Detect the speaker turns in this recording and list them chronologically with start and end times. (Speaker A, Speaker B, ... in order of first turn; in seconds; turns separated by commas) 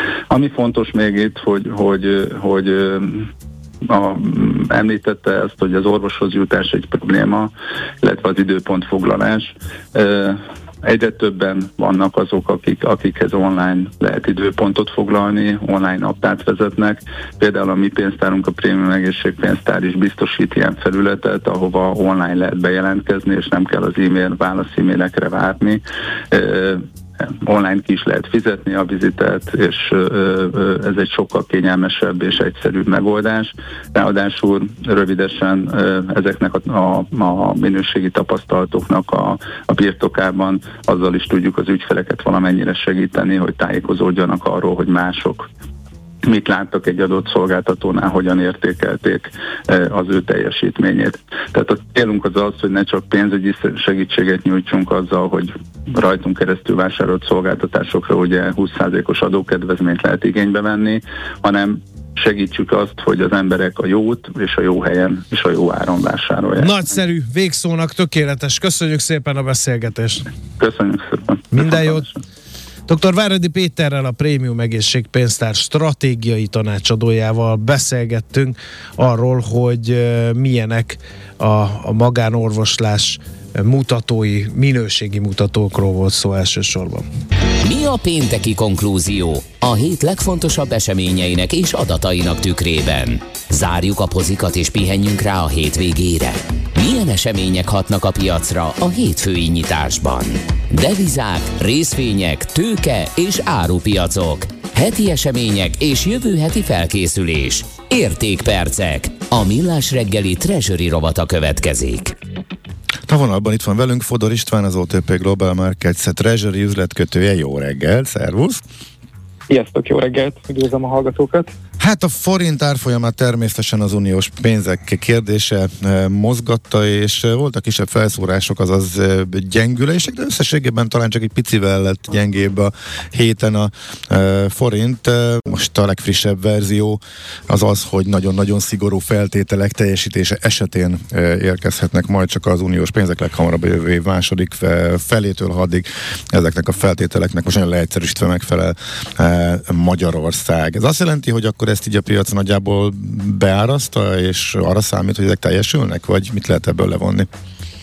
Speaker A: 0.3-3.3, Speaker A: 3.9-7.5, Speaker A: 8.0-26.9, Speaker A: 27.4-45.5, Speaker A: 46.2-66.8, Speaker B: 66.6-70.2, Speaker A: 70.6-72.2, Speaker B: 71.5-72.1, Speaker B: 72.9-87.0, Speaker C: 87.6-112.1, Speaker D: 113.1-118.6, Speaker E: 119.5-121.5, Speaker D: 121.8-157.3